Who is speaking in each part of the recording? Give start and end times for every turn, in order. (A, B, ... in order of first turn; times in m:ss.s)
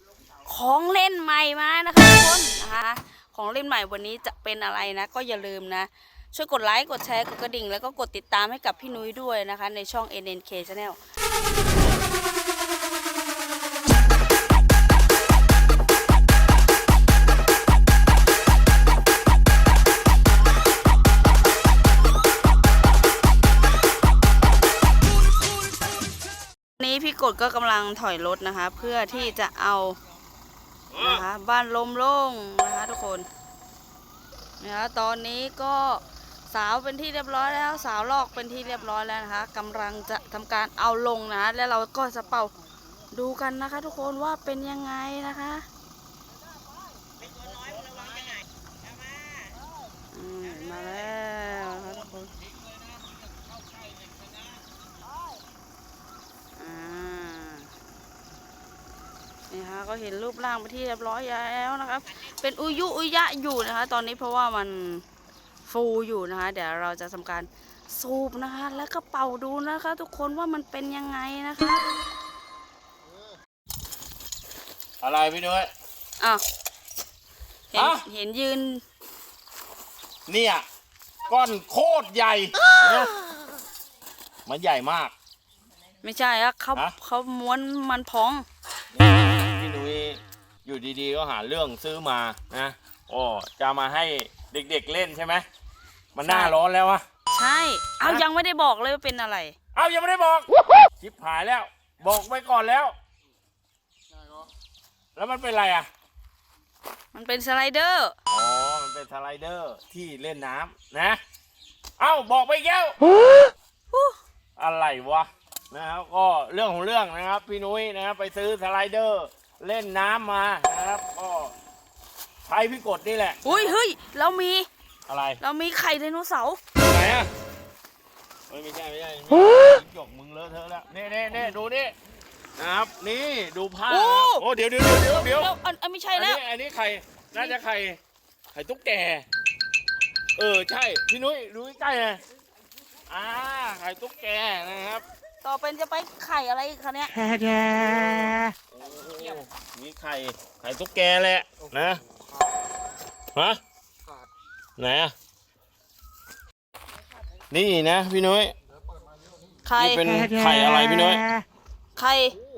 0:00.4-0:11.0 A
0:26.8-0:30.0 A
0:30.9-0:31.3 B
0:31.0-0:33.3 A
0:34.6-0:42.5 A
0:43.1-0:45.6 A
0:50.1-0:52.3 A
0:56.6-0:57.7 A
0:59.5-1:05.0 A
1:05.6-1:11.8 A
1:15.0-1:15.7 B
1:17.7-1:18.8 A
1:17.8-1:18.0 B
1:20.3-1:20.6 B
1:21.3-1:23.2 B
1:24.5-1:25.1 B
1:26.0-1:28.4 A
1:28.9-1:35.4 B
1:36.2-1:37.0 B
1:36.2-1:36.5 A
1:37.3-1:39.6 A
1:39.7-1:40.5 B
1:41.0-1:42.9 B
1:45.2-1:45.9 B
1:47.1-1:48.1 A
1:48.3-1:51.2 B
1:52.0-1:53.0 B
1:53.9-1:54.2 A
1:54.6-2:01.5 B
2:02.5-2:03.8 B
2:03.4-2:04.7 A
2:05.1-2:05.4 B
2:05.4-2:06.6 A
2:06.8-2:07.3 B
2:08.5-2:11.9 B
2:12.6-2:15.5 B
2:13.9-2:14.4 A
2:15.0-2:16.4 A
2:16.1-2:18.0 B
2:18.5-2:19.2 B
2:20.4-2:22.2 B
2:23.1-2:25.0 B
2:25.4-2:27.6 A
2:27.6-2:32.0 B
2:33.4-2:33.6 B
2:34.8-2:35.1 B
2:37.5-2:38.6 B
2:39.6-2:40.1 A
2:39.8-2:41.3 B
2:42.0-2:42.4 A